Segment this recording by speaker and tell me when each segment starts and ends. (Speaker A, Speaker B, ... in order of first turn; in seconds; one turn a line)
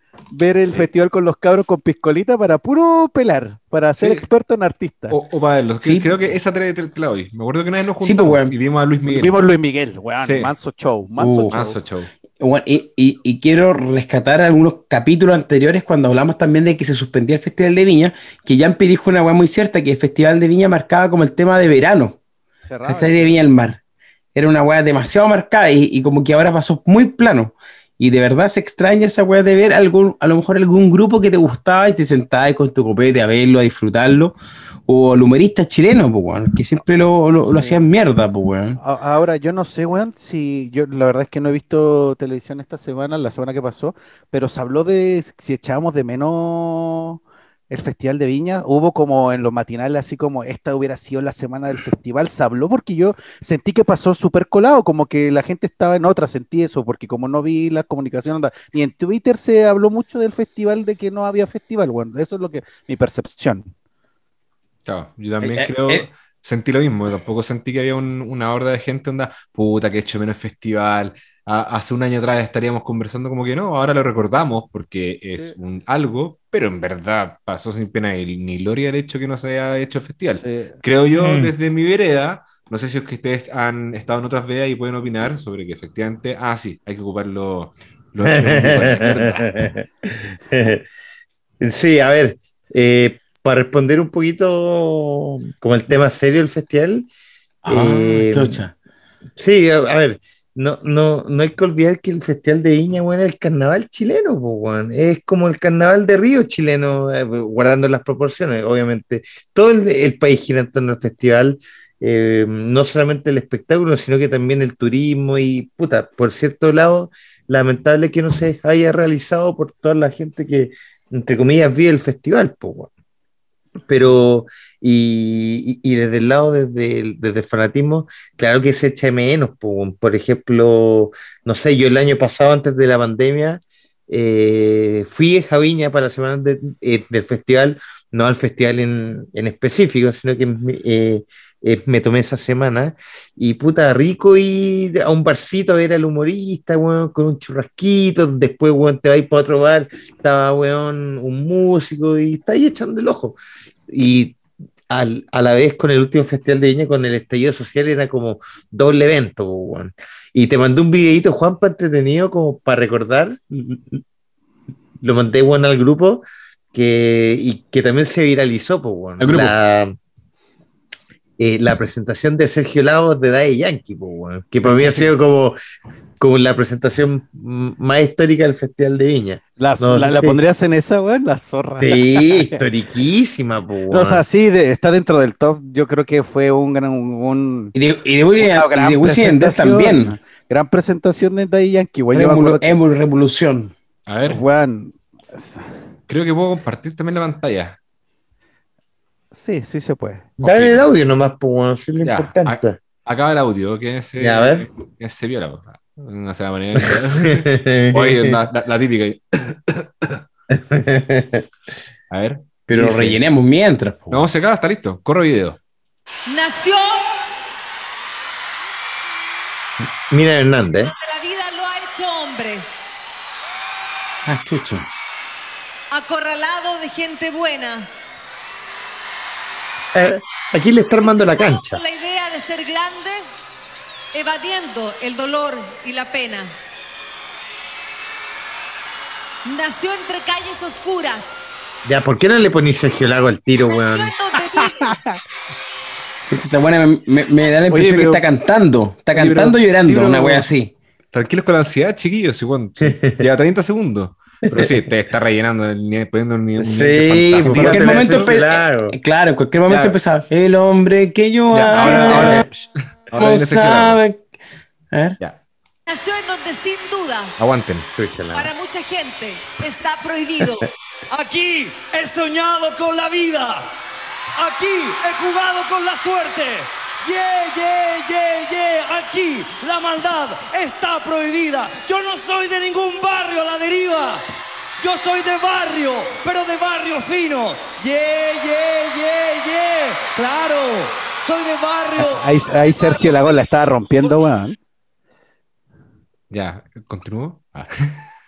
Speaker A: 0.3-5.2
Speaker B: 4.0-4.2
Speaker B: 5.1-9.3
Speaker C: 5.8-6.1
Speaker C: 8.0-8.5
Speaker A: 9.1-11.8
Speaker B: 10.2-10.5
Speaker C: 11.2-11.6
Speaker B: 11.5-12.1
Speaker C: 12.4-22.2
Speaker A: 22.6-23.4
Speaker C: 22.8-23.8
Speaker C: 24.3-34.3
Speaker C: 34.9-38.8
Speaker A: 37.4-37.8
Speaker A: 38.8-63.7
Speaker B: 64.8-89.5
Speaker C: 65.4-66.1
Speaker A: 80.3-80.8
Speaker D: 81.1-81.5
Speaker D: 88.2-90.8
Speaker D: 91.6-97.1
Speaker C: 97.6-98.8
Speaker D: 97.7-98.6
Speaker D: 99.4-122.9
Speaker D: 123.9-153.4
Speaker D: 153.9-154.4
Speaker D: 154.9-164.0
Speaker D: 165.0-169.9
Speaker C: 169.2-169.5
Speaker D: 171.4-175.6
Speaker A: 174.6-175.1
Speaker D: 176.2-180.4
Speaker A: 179.6-182.6
Speaker D: 181.8-184.2
Speaker A: 183.9-187.7
Speaker C: 187.7-190.2
Speaker A: 188.4-192.8
Speaker C: 192.1-193.7
Speaker B: 194.1-194.4
Speaker A: 194.3-195.6
Speaker B: 196.1-197.8
Speaker A: 199.3-200.3
Speaker D: 200.4-202.8
Speaker B: 200.4-200.8
Speaker B: 202.0-210.2
Speaker D: 204.2-204.7
Speaker D: 206.8-208.3
Speaker D: 210.5-211.4
Speaker B: 212.1-213.2
Speaker C: 212.7-214.3
Speaker B: 214.1-215.6
Speaker E: 216.3-217.2
Speaker D: 220.1-220.9
Speaker E: 220.8-222.7
Speaker C: 224.2-224.9
Speaker E: 225.9-227.9
Speaker D: 229.9-231.8
Speaker E: 231.5-233.2
Speaker E: 234.1-236.5
Speaker E: 239.4-241.5
Speaker D: 241.8-244.1
Speaker E: 243.7-245.0
Speaker A: 244.8-245.2
Speaker C: 246.3-250.7
Speaker B: 247.7-248.2
Speaker B: 249.1-250.5
Speaker B: 251.1-258.4
Speaker D: 252.8-253.2
Speaker D: 254.5-254.7
Speaker D: 256.6-258.9
Speaker C: 257.4-262.4
Speaker B: 259.7-260.0
Speaker B: 261.5-264.0
Speaker C: 263.2-264.2
Speaker C: 264.9-265.2
Speaker E: 265.9-267.4
Speaker B: 267.4-267.9
Speaker D: 268.0-268.5
Speaker E: 268.3-270.7
Speaker F: 271.1-273.7
Speaker F: 274.4-284.2
Speaker F: 284.8-292.2
Speaker A: 292.0-294.6
Speaker B: 296.3-298.0